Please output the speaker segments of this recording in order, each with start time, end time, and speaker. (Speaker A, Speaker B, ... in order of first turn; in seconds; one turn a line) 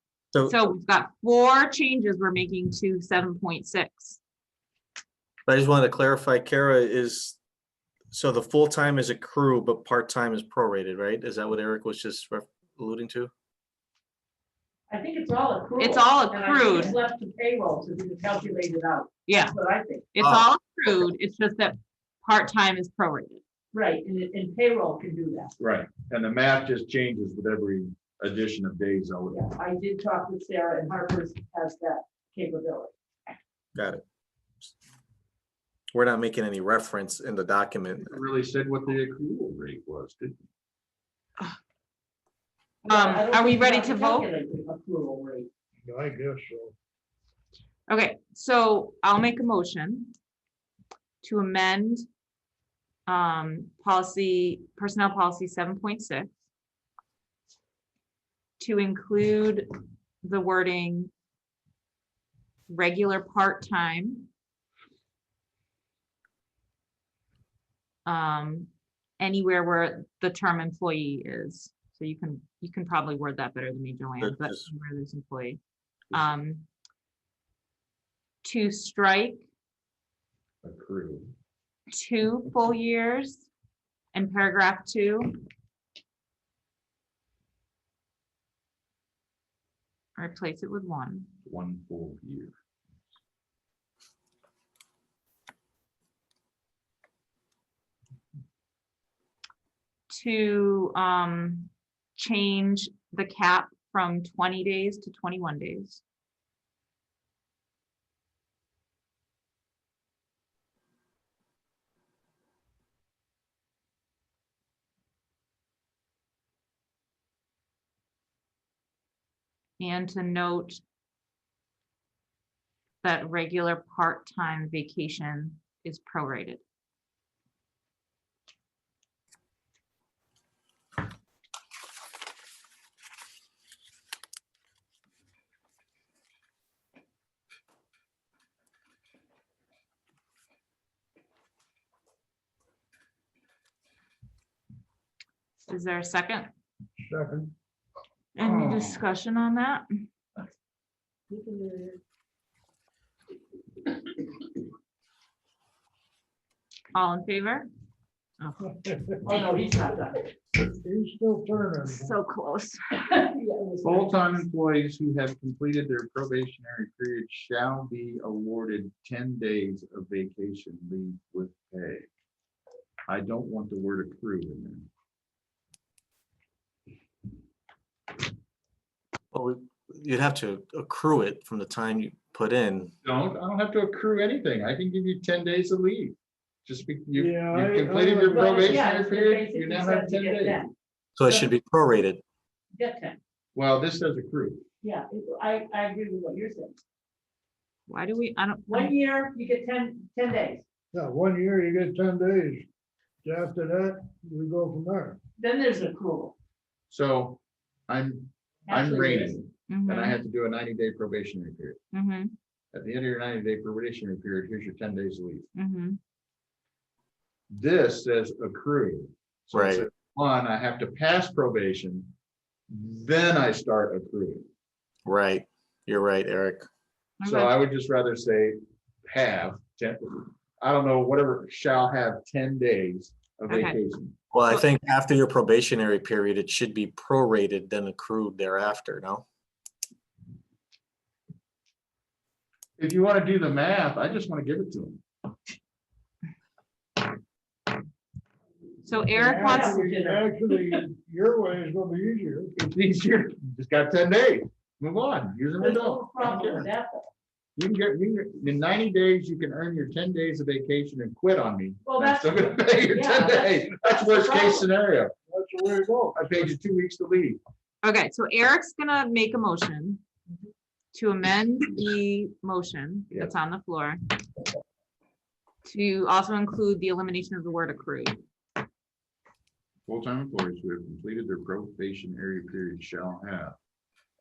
Speaker A: 0.3-0.7
Speaker B: 0.4-4.2
Speaker A: 5.5-7.4
Speaker A: 8.1-13.3
Speaker C: 14.9-20.1
Speaker B: 15.8-17.0
Speaker B: 19.3-19.6
Speaker B: 20.1-23.4
Speaker A: 20.2-20.5
Speaker C: 23.7-25.5
Speaker D: 25.6-29.4
Speaker C: 29.3-32.9
Speaker A: 33.8-34.0
Speaker A: 35.9-38.2
Speaker D: 38.1-40.4
Speaker C: 42.8-45.5
Speaker B: 42.9-44.3
Speaker E: 45.9-46.7
Speaker B: 47.9-50.1
Speaker B: 51.2-52.0
Speaker B: 53.1-56.3
Speaker B: 58.6-59.7
Speaker B: 60.2-61.1
Speaker B: 62.7-64.3
Speaker B: 68.1-75.6
Speaker A: 74.2-74.7
Speaker B: 76.1-76.7
Speaker B: 78.4-79.4
Speaker D: 80.6-81.3
Speaker B: 81.9-83.5
Speaker B: 84.1-85.4
Speaker B: 90.2-91.3
Speaker D: 91.5-92.5
Speaker B: 100.1-106.0
Speaker B: 119.8-120.8
Speaker B: 123.0-126.6
Speaker B: 145.7-146.5
Speaker E: 147.0-147.5
Speaker B: 148.4-149.9
Speaker D: 148.4-149.0
Speaker C: 151.3-152.0
Speaker B: 156.9-157.7
Speaker B: 158.4-158.8
Speaker C: 159.2-160.3
Speaker E: 160.6-162.1
Speaker B: 161.9-163.0
Speaker C: 163.0-164.4
Speaker D: 163.8-172.1
Speaker D: 173.1-174.9
Speaker A: 179.3-182.9
Speaker D: 183.0-190.6
Speaker E: 187.1-188.8
Speaker C: 188.3-190.7
Speaker A: 191.2-192.2
Speaker C: 192.8-193.2
Speaker D: 193.6-194.6
Speaker C: 194.8-196.8
Speaker B: 197.9-198.9
Speaker C: 198.7-200.6
Speaker E: 200.9-202.7
Speaker E: 203.2-205.2
Speaker C: 205.4-206.3
Speaker D: 206.9-211.8
Speaker C: 208.7-209.4
Speaker B: 209.7-210.2
Speaker B: 211.9-212.3
Speaker D: 212.7-215.5
Speaker B: 215.6-216.0
Speaker D: 217.5-222.1
Speaker A: 219.5-219.8
Speaker D: 222.7-224.5
Speaker A: 225.1-226.7
Speaker B: 227.2-227.6
Speaker D: 227.2-234.2
Speaker B: 233.5-233.8
Speaker A: 234.3-239.2
Speaker D: 242.8-245.0
Speaker B: 248.8-249.8
Speaker E: 249.1-252.5
Speaker C: 249.2-250.3
Speaker D: 252.6-256.6
Speaker C: 255.6-257.1
Speaker D: 257.6-265.1
Speaker C: 261.9-264.7
Speaker E: 265.3-266.5
Speaker D: 266.1-267.4
Speaker B: 267.8-270.0
Speaker B: 270.9-274.0
Speaker B: 275.6-278.2
Speaker D: 279.9-283.6